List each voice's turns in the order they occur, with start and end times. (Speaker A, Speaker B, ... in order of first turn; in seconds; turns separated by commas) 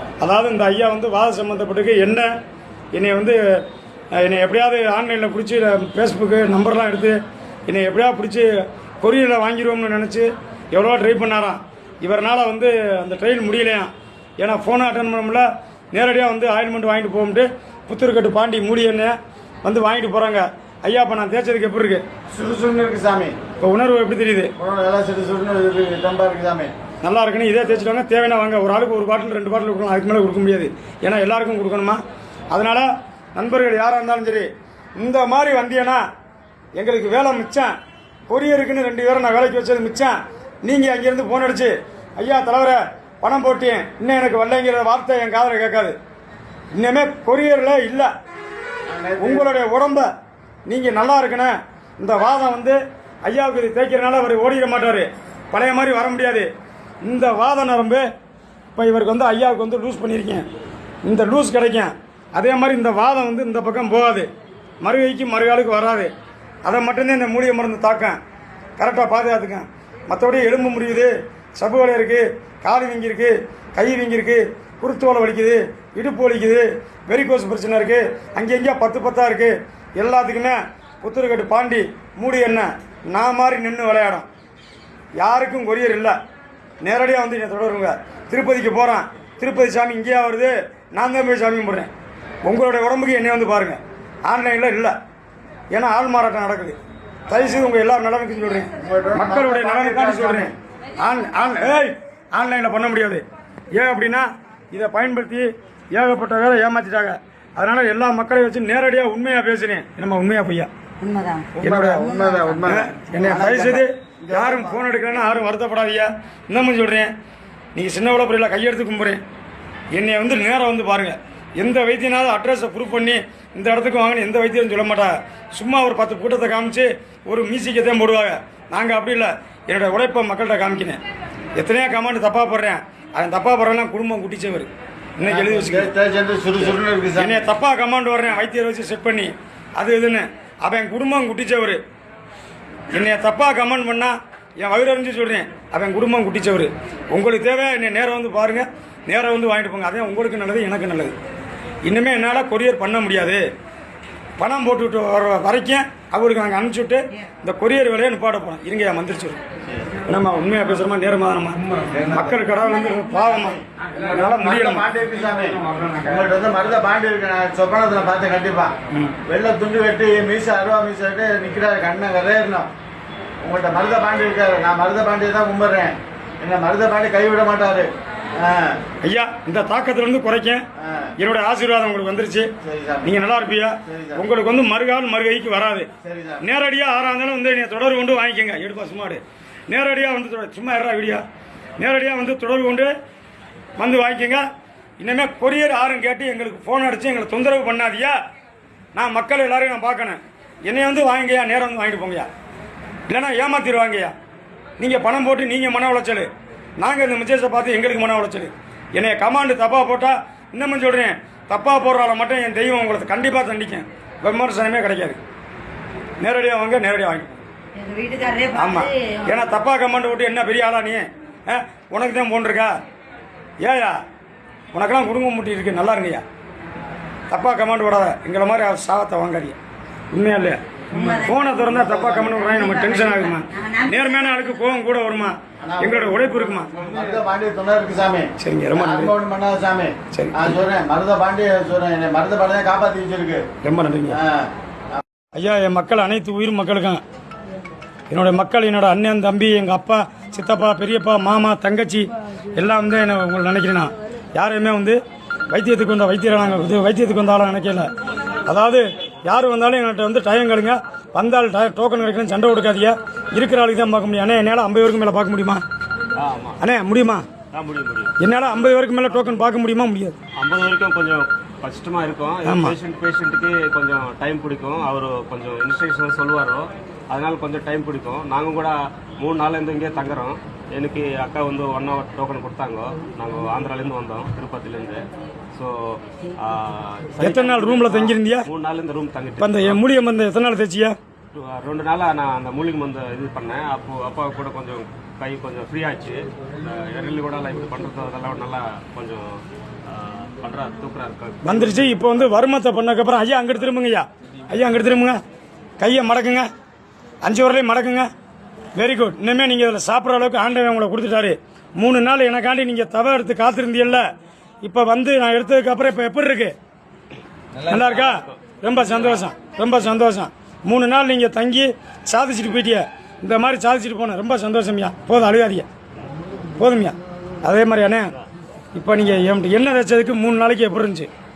Speaker A: 0.2-2.3, Speaker A: 2.9-3.6, Speaker A: 4.1-8.5, Speaker A: 9.0-22.0, Speaker B: 22.3-23.4, Speaker A: 23.6-24.5, Speaker B: 24.6-26.7, Speaker A: 27.0-36.0, Speaker A: 36.8-37.7, Speaker A: 38.3-45.9, Speaker A: 46.7-48.1, Speaker B: 48.9-49.5, Speaker A: 49.2-50.1, Speaker A: 50.7-56.5, Speaker A: 57.0-58.0, Speaker A: 58.8-60.5, Speaker A: 61.0-64.3, Speaker A: 64.8-66.1, Speaker A: 66.6-68.2, Speaker A: 68.8-84.2, Speaker A: 85.2-86.2, Speaker A: 86.8-91.9, Speaker A: 92.4-94.9, Speaker A: 95.7-96.8, Speaker A: 97.3-110.7, Speaker B: 98.8-100.5, Speaker C: 111.0-111.5, Speaker B: 111.6-114.8, Speaker A: 111.6-117.1, Speaker A: 117.8-119.2, Speaker A: 119.9-131.0, Speaker A: 131.6-135.9, Speaker B: 135.3-137.4, Speaker A: 137.2-141.8, Speaker A: 142.9-151.1, Speaker A: 151.8-153.4, Speaker A: 154.4-159.4, Speaker A: 160.1-164.8, Speaker B: 164.2-172.7, Speaker A: 168.9-169.2, Speaker B: 173.4-178.8, Speaker A: 179.0-180.6, Speaker B: 180.8-181.1, Speaker A: 181.2-182.5, Speaker B: 182.6-183.1, Speaker A: 183.0-185.9, Speaker B: 183.8-184.2, Speaker B: 186.0-186.4, Speaker A: 186.4-191.2, Speaker A: 191.8-192.9, Speaker A: 193.8-194.4, Speaker A: 195.0-198.2, Speaker A: 198.9-202.3, Speaker A: 203.1-204.1, Speaker A: 204.8-215.2, Speaker A: 216.2-217.3, Speaker C: 217.8-218.5, Speaker A: 218.5-222.8, Speaker A: 223.6-224.0, Speaker A: 224.7-226.2, Speaker A: 227.3-229.6, Speaker A: 230.1-236.7, Speaker B: 231.5-232.5, Speaker C: 232.6-233.9, Speaker B: 235.6-243.4, Speaker A: 238.4-239.1, Speaker A: 240.1-240.6, Speaker A: 243.6-244.2, Speaker B: 244.1-245.0, Speaker A: 245.3-247.0, Speaker A: 248.1-257.9, Speaker A: 258.5-265.6, Speaker D: 266.2-266.6, Speaker A: 266.6-267.3, Speaker D: 267.5-268.2, Speaker A: 268.2-270.2, Speaker D: 270.4-289.8, Speaker A: 272.4-272.8, Speaker A: 287.2-288.5, Speaker A: 289.4-290.9, Speaker D: 291.3-302.0, Speaker A: 301.4-305.2, Speaker A: 305.8-306.5, Speaker A: 307.2-308.1, Speaker A: 308.8-314.1, Speaker A: 314.6-316.5, Speaker A: 317.6-325.7, Speaker D: 317.7-318.2, Speaker A: 326.6-328.1, Speaker A: 328.7-331.1